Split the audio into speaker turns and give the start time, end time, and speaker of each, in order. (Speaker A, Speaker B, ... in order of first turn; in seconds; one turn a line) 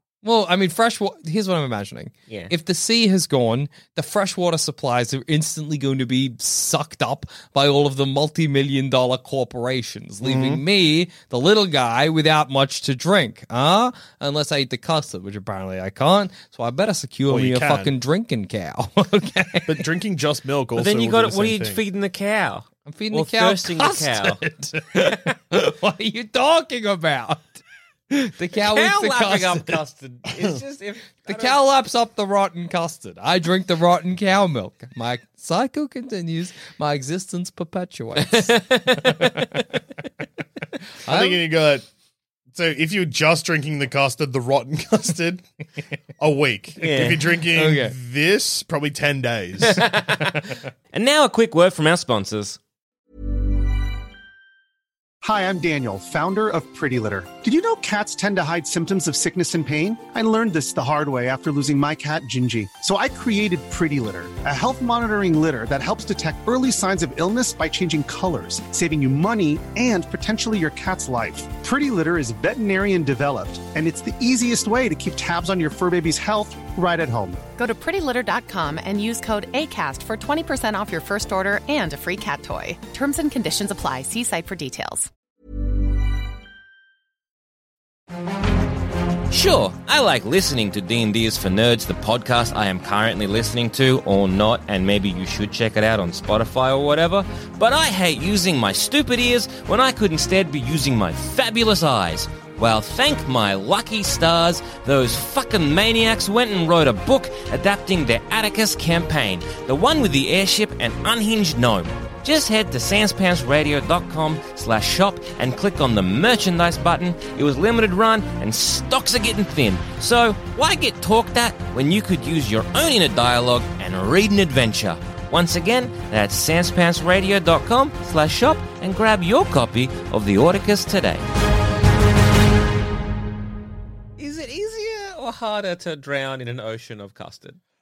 Speaker A: 0.2-19.8
Speaker B: 10.2-10.6
Speaker B: 17.3-17.9
Speaker B: 19.7-21.8
Speaker C: 20.8-24.4
Speaker A: 22.9-29.8
Speaker C: 28.4-31.6
Speaker A: 31.3-39.6
Speaker C: 38.2-39.6
Speaker A: 41.0-41.4
Speaker B: 41.1-41.9
Speaker B: 42.5-45.4
Speaker B: 46.2-49.9
Speaker C: 46.8-47.3
Speaker A: 47.5-48.0
Speaker C: 49.6-52.6
Speaker D: 55.2-77.4
Speaker E: 77.6-85.1
Speaker C: 89.3-131.2
Speaker C: 134.2-137.6